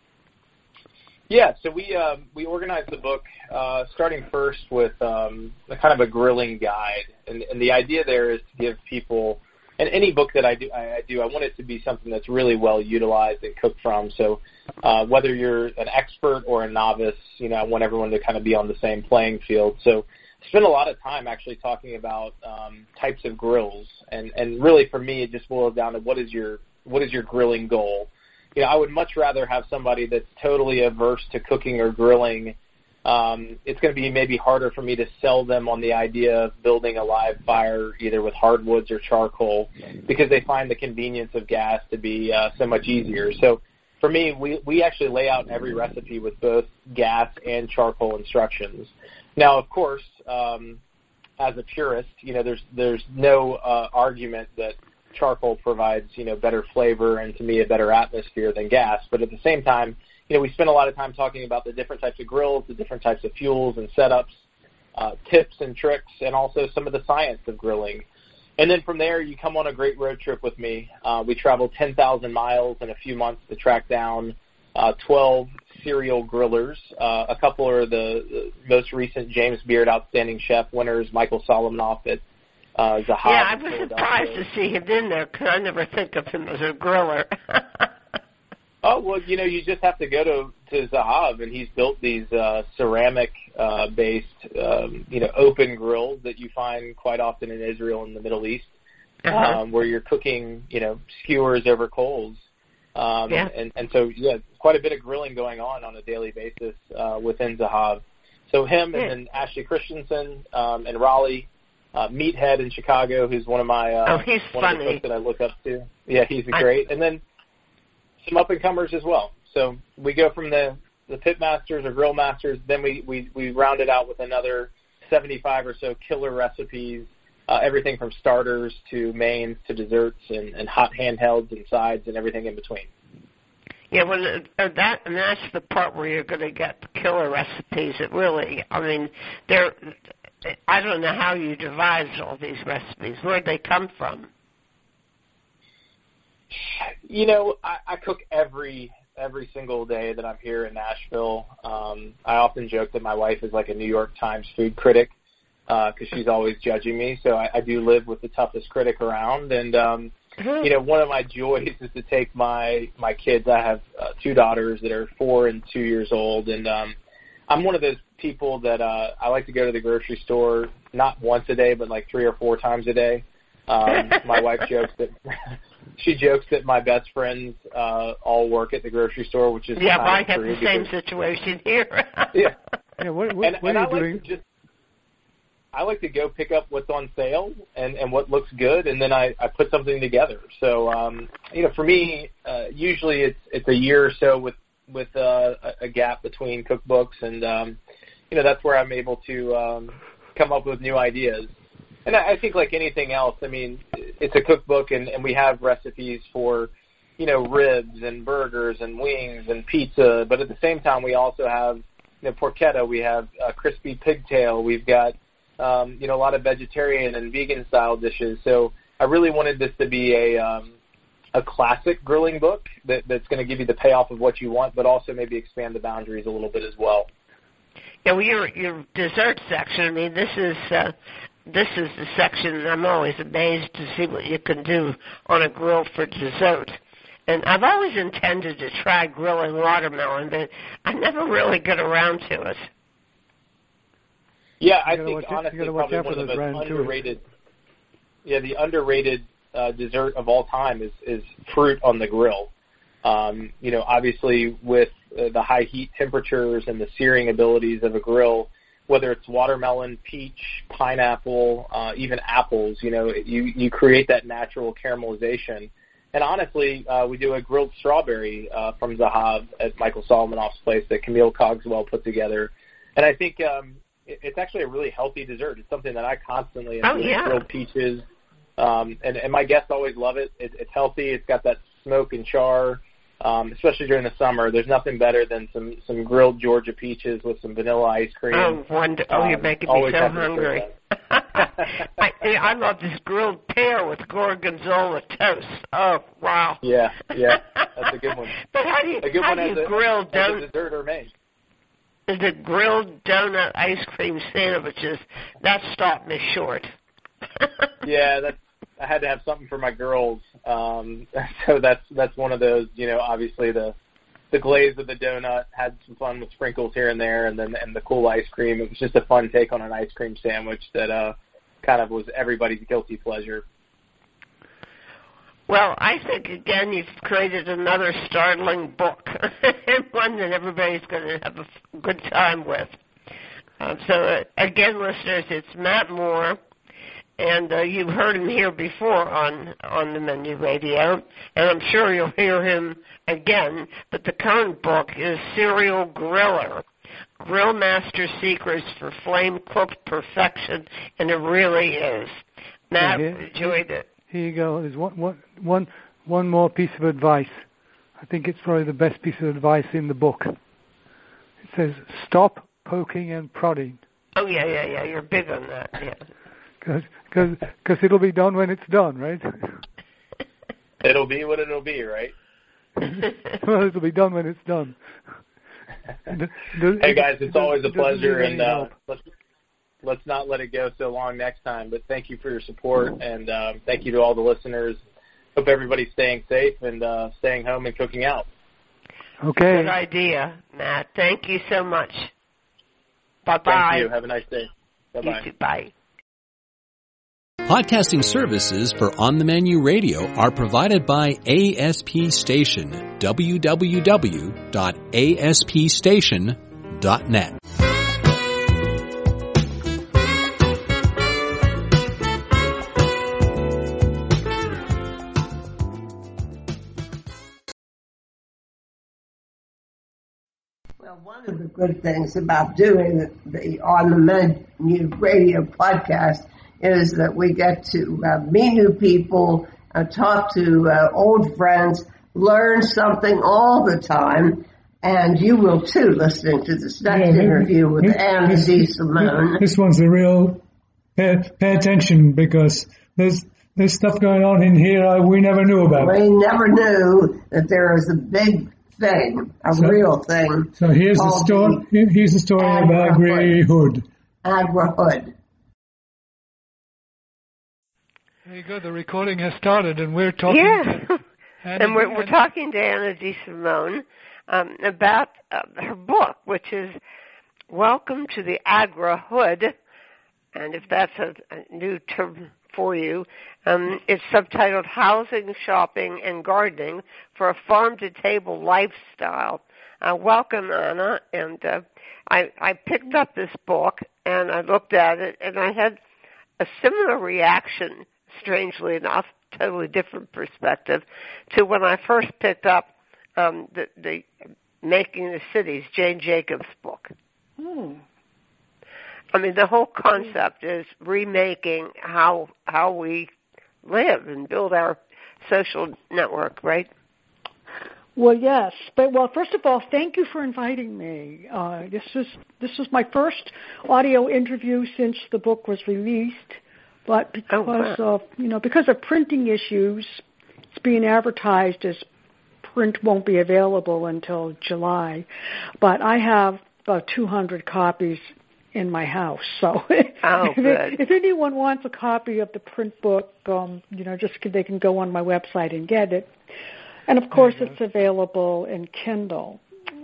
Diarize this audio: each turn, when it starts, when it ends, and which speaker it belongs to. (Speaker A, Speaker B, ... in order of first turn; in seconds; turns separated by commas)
Speaker A: 1.3-50.8, Speaker A: 51.4-64.4, Speaker A: 65.0-68.0, Speaker A: 68.6-82.2, Speaker A: 82.8-84.4, Speaker B: 83.2-87.9, Speaker A: 88.8-98.7, Speaker B: 99.2-99.6, Speaker A: 99.3-102.4, Speaker A: 103.0-117.2, Speaker B: 114.1-115.0, Speaker A: 118.2-132.9, Speaker B: 133.9-139.9, Speaker B: 140.5-144.3, Speaker A: 146.5-155.1, Speaker A: 155.7-167.0, Speaker B: 160.4-160.7, Speaker A: 167.5-175.3, Speaker A: 176.0-180.9, Speaker B: 179.8-182.3, Speaker C: 183.0-184.2, Speaker A: 183.4-184.4, Speaker A: 185.7-197.8, Speaker A: 198.3-201.5, Speaker A: 202.1-220.7, Speaker A: 221.3-227.1, Speaker B: 228.1-230.9, Speaker B: 231.5-242.7, Speaker A: 244.6-247.2, Speaker C: 244.9-246.9, Speaker A: 248.2-252.5, Speaker A: 253.0-278.1, Speaker B: 276.8-277.4, Speaker A: 278.6-290.7, Speaker B: 288.3-296.6, Speaker A: 296.6-298.4, Speaker B: 297.3-297.9, Speaker B: 298.4-300.4, Speaker A: 299.0-301.1, Speaker B: 302.1-306.7, Speaker B: 307.4-307.6, Speaker A: 307.8-313.8, Speaker A: 314.3-323.4, Speaker B: 325.5-332.8, Speaker B: 333.6-336.4, Speaker B: 337.2-346.6, Speaker B: 347.2-353.9, Speaker C: 352.8-357.4, Speaker C: 358.0-360.3, Speaker C: 361.4-363.8, Speaker B: 364.2-366.0, Speaker C: 366.6-369.6, Speaker A: 370.8-372.1, Speaker C: 373.4-374.8, Speaker C: 376.1-378.7, Speaker A: 376.8-379.0, Speaker A: 379.8-384.8, Speaker A: 385.4-388.3, Speaker C: 389.2-389.7, Speaker B: 389.5-392.1, Speaker B: 393.3-393.9, Speaker A: 393.5-395.3, Speaker B: 395.0-395.7, Speaker D: 397.5-407.4, Speaker E: 420.8-439.4, Speaker F: 436.9-440.4, Speaker F: 441.0-446.0, Speaker E: 445.8-451.6, Speaker F: 449.5-449.8, Speaker F: 450.6-453.8, Speaker E: 452.4-453.4, Speaker E: 454.2-455.1, Speaker C: 458.3-460.8, Speaker B: 460.3-461.0, Speaker C: 461.4-462.1, Speaker B: 461.6-466.8, Speaker B: 467.5-469.5, Speaker B: 470.3-485.8, Speaker B: 486.4-494.1, Speaker B: 494.6-496.9, Speaker G: 497.4-497.8, Speaker B: 499.1-503.1, Speaker B: 503.6-506.7, Speaker G: 508.0-521.9, Speaker B: 517.3-517.8, Speaker G: 522.4-525.1, Speaker G: 525.6-536.1, Speaker B: 530.0-530.8, Speaker G: 536.9-539.4, Speaker C: 537.1-537.5